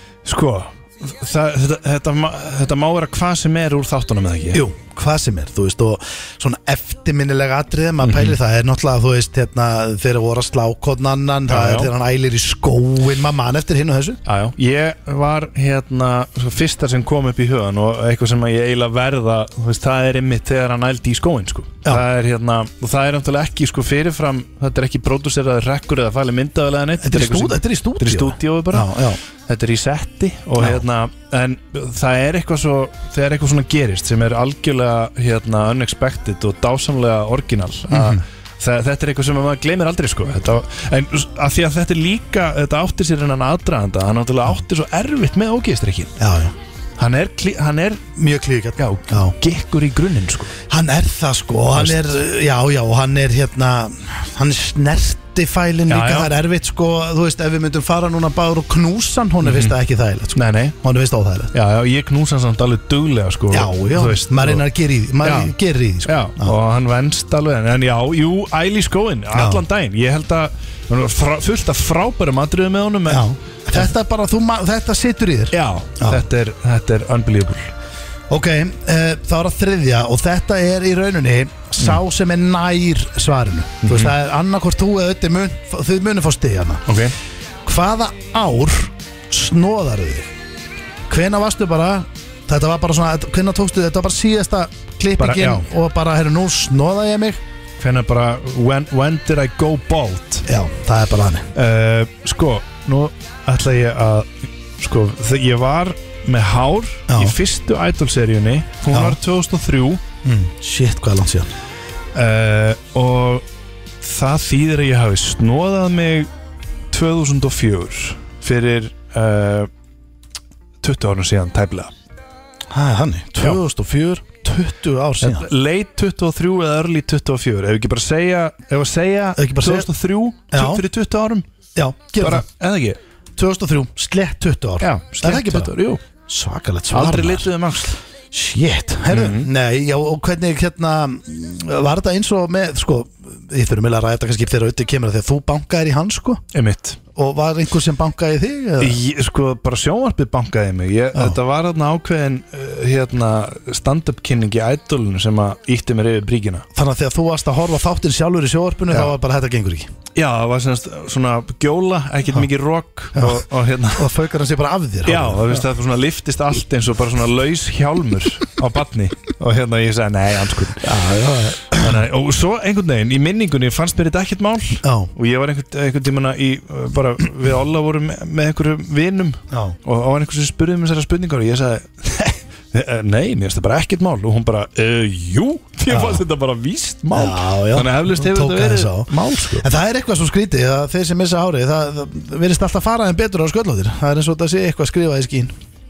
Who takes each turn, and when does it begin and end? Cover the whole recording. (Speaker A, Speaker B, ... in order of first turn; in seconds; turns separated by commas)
Speaker A: 0.2-4.6, Speaker B: 4.5-14.2, Speaker A: 8.0-8.4, Speaker A: 11.5-11.9, Speaker A: 14.2-28.9, Speaker B: 27.0-29.2, Speaker A: 29.5-46.1, Speaker B: 30.6-30.8, Speaker B: 37.9-38.2, Speaker B: 46.2-46.5, Speaker A: 47.0-48.1, Speaker B: 48.1-49.3, Speaker A: 48.8-50.5, Speaker B: 50.7-61.5, Speaker A: 51.7-52.0, Speaker A: 55.9-56.3, Speaker A: 59.4-59.8, Speaker A: 60.3-60.7, Speaker A: 61.5-64.6, Speaker B: 63.5-66.5, Speaker A: 65.2-65.5, Speaker A: 66.0-73.8, Speaker B: 69.3-69.6, Speaker B: 73.1-76.2, Speaker A: 75.5-77.7, Speaker B: 78.3-86.8, Speaker A: 83.8-84.1, Speaker A: 86.9-87.1, Speaker B: 87.6-90.3, Speaker B: 91.1-97.4, Speaker A: 95.2-95.6, Speaker A: 97.8-100.5, Speaker B: 100.5-101.5, Speaker A: 101.5-104.3, Speaker A: 104.8-110.0, Speaker B: 107.1-107.4, Speaker B: 108.9-109.2, Speaker B: 110.2-111.5, Speaker A: 112.1-113.4, Speaker A: 114.0-116.3, Speaker A: 116.9-119.7, Speaker A: 120.8-121.9, Speaker B: 122.7-125.5, Speaker A: 125.2-131.4, Speaker B: 129.3-129.9, Speaker B: 130.5-130.8, Speaker B: 131.8-132.4, Speaker A: 132.2-133.0, Speaker B: 133.4-135.7, Speaker A: 134.8-136.0, Speaker B: 136.2-137.5, Speaker A: 136.9-137.9, Speaker B: 138.3-146.4, Speaker A: 139.1-139.5, Speaker A: 146.5-147.0, Speaker B: 147.1-149.0, Speaker A: 148.8-156.7, Speaker B: 156.7-159.9, Speaker A: 160.2-164.1, Speaker B: 163.1-163.4, Speaker B: 163.9-165.6, Speaker A: 165.1-170.9, Speaker B: 170.8-172.0, Speaker A: 171.8-189.7, Speaker B: 174.8-175.1, Speaker B: 185.9-186.2, Speaker B: 187.1-195.5